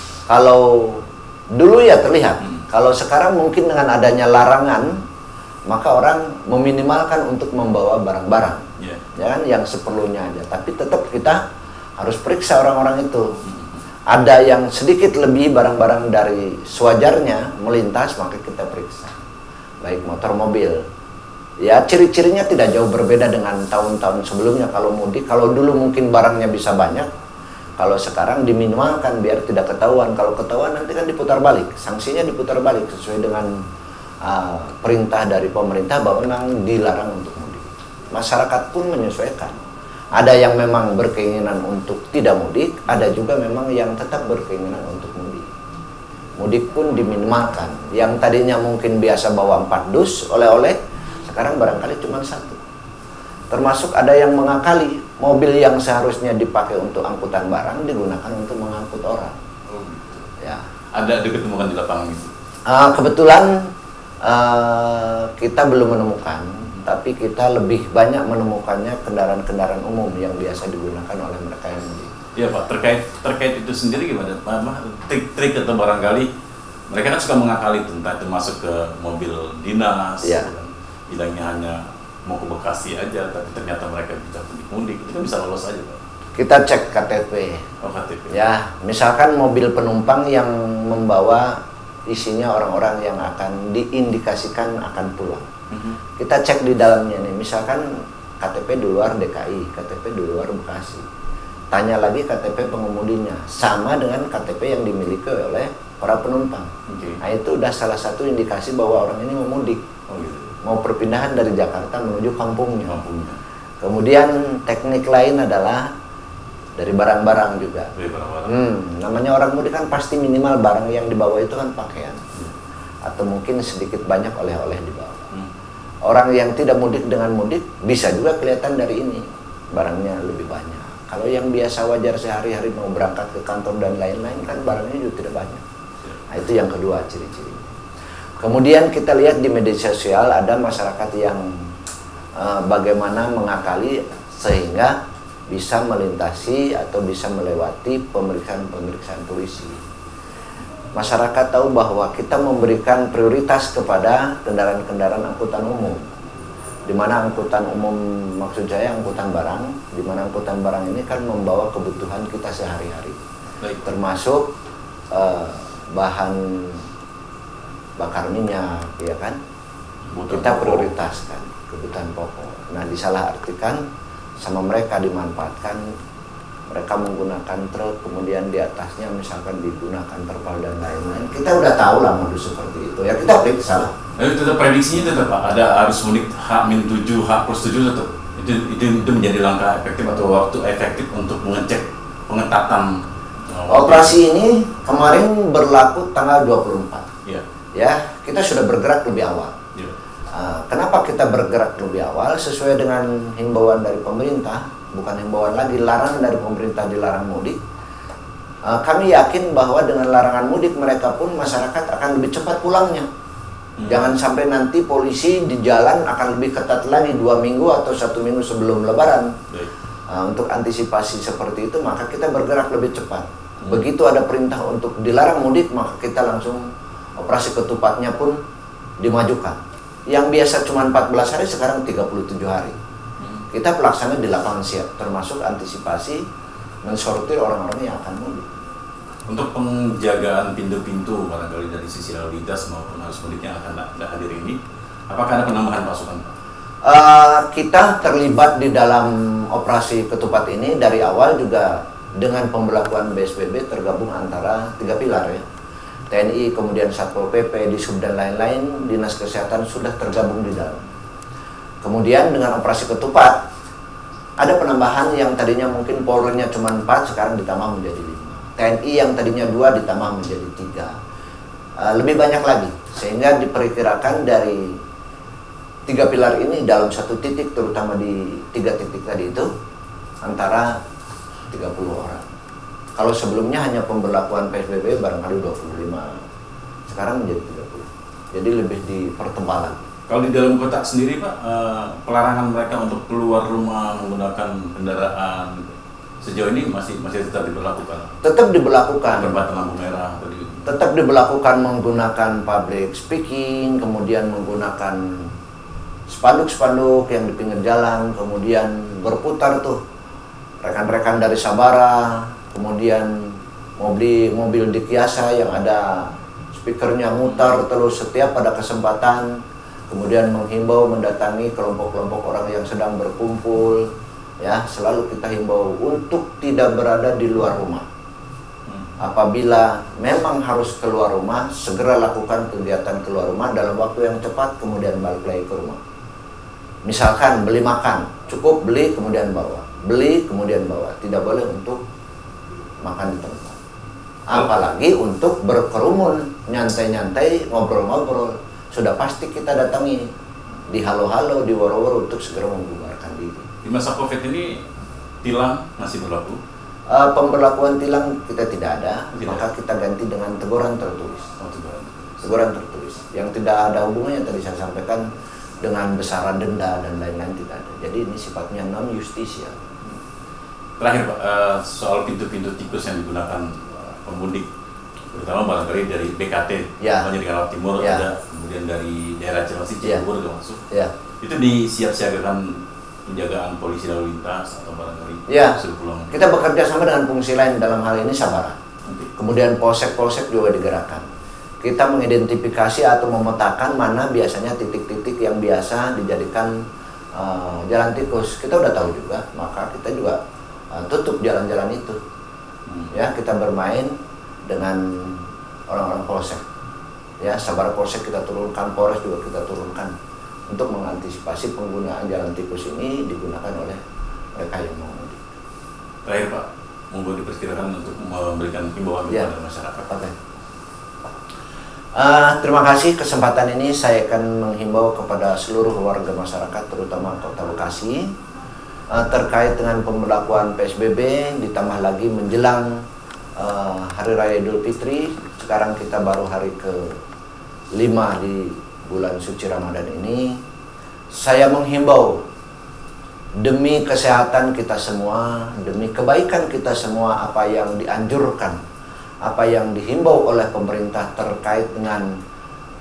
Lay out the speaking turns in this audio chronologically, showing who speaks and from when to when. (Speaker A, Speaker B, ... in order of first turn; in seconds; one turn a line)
Speaker A: 0.3-5.0
Speaker A: 5.7-11.4
Speaker A: 12.0-13.4
Speaker B: 13.4-13.8
Speaker A: 14.1-19.2
Speaker A: 19.8-20.8
Speaker A: 21.6-27.1
Speaker A: 27.8-33.5
Speaker A: 34.2-39.6
Speaker A: 40.1-45.5
Speaker A: 46.4-52.6
Speaker A: 53.5-59.4
Speaker B: 59.7-60.3
Speaker B: 60.9-62.3
Speaker A: 62.7-63.7
Speaker A: 64.2-72.1
Speaker B: 72.4-76.3
Speaker B: 76.9-86.0
Speaker A: 80.2-80.5
Speaker A: 86.4-87.6
Speaker B: 87.8-88.3
Speaker A: 88.3-91.6
Speaker A: 92.1-95.5
Speaker B: 95.7-96.0
Speaker A: 96.2-101.0
Speaker A: 101.7-109.8
Speaker B: 106.9-107.2
Speaker B: 110.1-110.6
Speaker A: 110.6-113.0
Speaker B: 112.9-113.4
Speaker A: 113.8-115.9
Speaker A: 116.8-117.9
Speaker B: 118.0-118.5
Speaker A: 118.5-122.2
Speaker A: 123.0-125.3
Speaker A: 126.0-135.6
Speaker A: 136.3-137.7
Speaker A: 138.4-141.7
Speaker A: 142.4-145.0
Speaker A: 145.5-149.8
Speaker A: 150.9-156.1
Speaker A: 156.9-163.2
Speaker A: 163.8-164.5
Speaker A: 165.1-166.9
Speaker A: 168.0-169.4
Speaker B: 170.1-170.9
Speaker A: 170.3-173.8
Speaker A: 174.4-175.9
Speaker A: 176.7-183.9
Speaker B: 184.2-192.9
Speaker B: 193.5-194.2
Speaker A: 193.7-197.1
Speaker A: 197.8-199.6
Speaker A: 200.3-207.6
Speaker A: 208.7-213.1
Speaker B: 213.8-214.2
Speaker A: 213.8-219.3
Speaker A: 220.1-226.6
Speaker A: 227.2-228.4
Speaker A: 229.0-229.6
Speaker A: 230.1-232.8
Speaker B: 233.2-233.4
Speaker A: 233.5-236.2
Speaker A: 236.8-238.6
Speaker B: 239.3-244.6
Speaker B: 245.1-246.3
Speaker A: 246.8-255.4
Speaker A: 256.1-260.8
Speaker A: 261.8-263.4
Speaker A: 264.4-270.9
Speaker A: 271.8-274.8
Speaker A: 275.9-279.5
Speaker A: 280.2-280.8
Speaker A: 281.5-282.2
Speaker A: 283.0-286.2
Speaker A: 286.9-289.9
Speaker B: 290.1-298.1
Speaker A: 298.2-299.4
Speaker B: 299.1-300.7
Speaker A: 300.7-305.3
Speaker A: 306.1-309.8
Speaker A: 310.6-323.9
Speaker A: 324.4-327.9
Speaker A: 329.0-335.8
Speaker A: 336.9-341.8
Speaker A: 342.8-343.6
Speaker A: 344.3-350.1
Speaker A: 350.7-353.5
Speaker B: 353.6-354.6
Speaker B: 355.2-356.4
Speaker A: 356.9-361.3
Speaker B: 359.2-359.4
Speaker B: 361.4-362.2
Speaker A: 362.2-365.1
Speaker A: 365.6-369.6
Speaker B: 370.8-374.5
Speaker B: 375.1-380.6
Speaker A: 376.8-377.1
Speaker B: 381.2-386.1
Speaker A: 385.3-385.6
Speaker A: 386.1-388.6
Speaker A: 389.1-391.1
Speaker A: 391.6-396.6
Speaker A: 397.1-400.2
Speaker A: 400.7-402.0
Speaker B: 402.7-402.9
Speaker A: 402.9-403.9
Speaker A: 404.5-406.4
Speaker A: 407.2-409.9
Speaker A: 410.5-413.8
Speaker A: 414.4-415.3
Speaker B: 416.1-419.9
Speaker A: 422.0-428.0
Speaker A: 428.9-432.8
Speaker A: 433.4-437.0
Speaker A: 437.8-440.4
Speaker A: 441.1-442.2
Speaker A: 443.4-448.6
Speaker A: 449.2-452.1